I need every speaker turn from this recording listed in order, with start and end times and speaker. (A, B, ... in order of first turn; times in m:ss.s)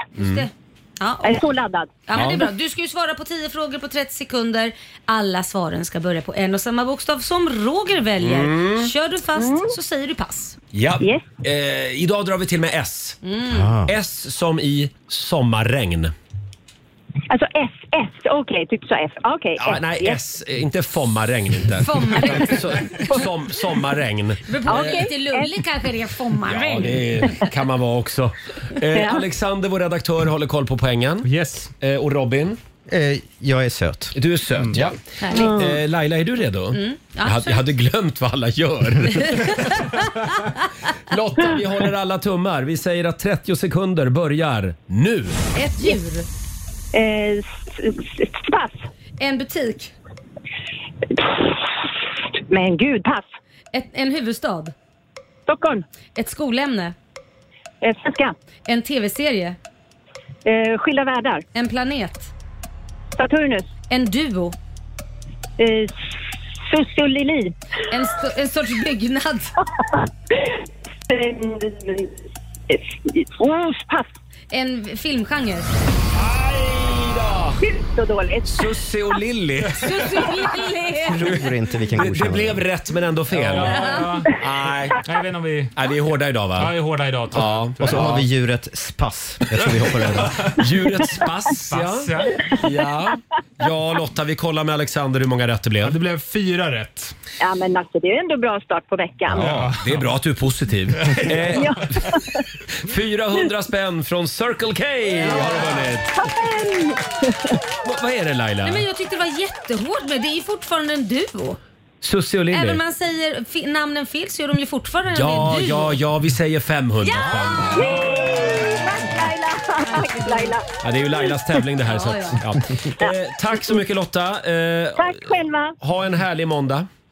0:00.1-0:01.4 A
0:00.2-0:00.4 B
0:01.2-0:02.3 C
0:02.0-0:10.6 A
0:02.1-0:02.4 B
0:08.2-0:08.9 B
0:09.4-0:09.7 C
0:10.7-0:13.2 B
0:11.0-0:11.2 C
0:13.2-0:13.7 A
0:13.5-0:13.9 D
0:13.8-0:16.1 B
0:17.3-0:20.2 C
0:19.6-0:25.0 B
0:21.8-0:22.9 A
0:24.5-0:27.4 A
0:24.7-0:25.5 C
0:26.5-0:31.3 B
0:28.9-0:29.2 C
0:31.2-0:31.7 E
0:31.8-0:32.6 B
0:32.9-0:34.1 D
0:34.2-0:40.0 B
0:35.2-0:35.5 A
0:35.3-0:35.7 C
0:36.7-0:37.6 A
0:39.1-0:40.5 A
0:41.1-0:45.4 B
0:45.5-0:46.3 A
0:46.9-0:48.9 C
0:49.2-0:49.9 A
0:51.1-0:51.7 C
0:52.5-0:53.2 C
0:53.7-0:54.7 A
0:55.5-0:55.8 C
0:56.1-0:56.9 A
0:57.8-0:58.3 C
0:58.7-0:59.6 A
1:00.4-1:01.4 C
1:01.5-1:02.3 A
1:03.2-1:03.7 C
1:03.9-1:04.6 A
1:05.6-1:06.0 C
1:06.6-1:07.5 C
1:07.9-1:09.5 A
1:10.4-1:12.1 C
1:12.7-1:14.1 C
1:14.5-1:15.8 A
1:16.1-1:17.6 B
1:17.6-1:18.7 C
1:18.4-1:20.0 B
1:19.8-1:21.2 A
1:20.9-1:22.6 D
1:21.9-1:25.0 B
1:23.3-1:24.4 E
1:23.7-1:24.0 A
1:25.0-1:25.7 E
1:25.8-1:26.7 B
1:26.6-1:28.2 E
1:27.3-1:28.2 B
1:27.8-1:30.5 D
1:30.6-1:36.0 B
1:31.7-1:32.4 E
1:35.8-1:37.1 E
1:37.4-1:39.6 C
1:39.3-1:42.1 B
1:39.4-1:40.0 E
1:41.5-1:42.4 C
1:42.8-1:46.2 B
1:46.1-1:47.6 C
1:47.8-1:48.8 B
1:48.6-1:51.6 A
1:52.0-1:52.8 B
1:52.5-1:56.0 A
1:55.1-1:58.1 B
1:57.0-1:58.0 A
1:57.7-2:01.3 C
1:59.9-2:00.5 A
2:00.8-2:06.9 B
2:01.8-2:02.4 A
2:05.0-2:05.7 C